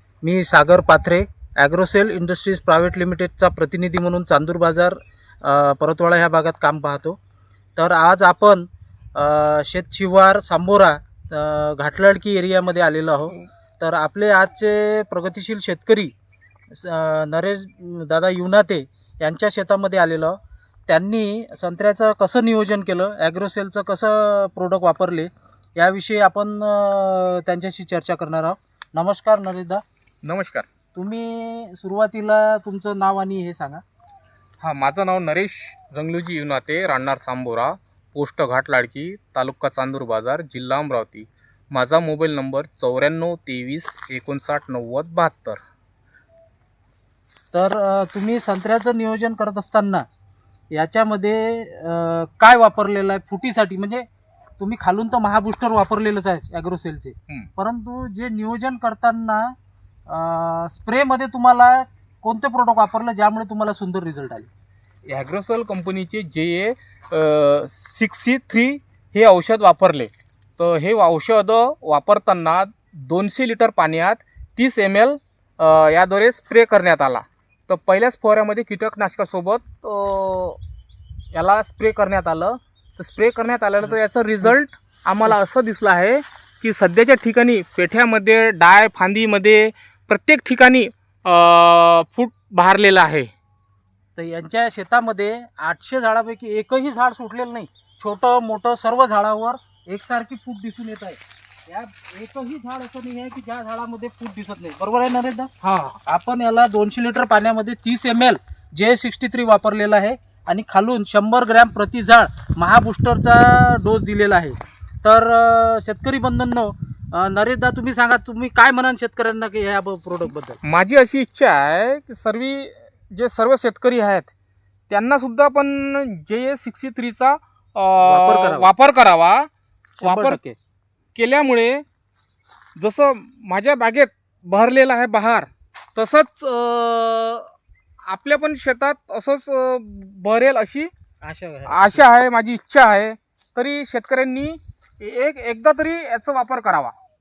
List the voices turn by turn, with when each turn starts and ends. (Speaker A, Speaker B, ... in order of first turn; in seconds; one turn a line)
Speaker A: 0.2-7.2
Speaker A: 7.8-16.1
Speaker A: 16.7-20.4
Speaker A: 20.9-29.8
Speaker B: 30.2-30.7
Speaker A: 30.9-33.8
Speaker B: 34.6-45.6
Speaker A: 47.5-50.0
Speaker A: 50.7-54.0
Speaker A: 54.6-59.5
Speaker A: 60.1-64.5
Speaker B: 65.1-80.6
Speaker B: 81.3-93.3
Speaker A: 83.8-84.5
Speaker A: 94.2-105.5
Speaker B: 105.6-106.0
Speaker A: 106.0-120.6
Speaker B: 120.6-124.3
Speaker B: 124.9-129.5
Speaker A: 128.0-128.7
Speaker B: 130.0-130.4
Speaker A: 130.0-130.6
Speaker B: 131.1-131.8
Speaker B: 132.8-137.5
Speaker B: 138.0-140.9
Speaker A: 141.2-142.1
Speaker B: 141.7-146.9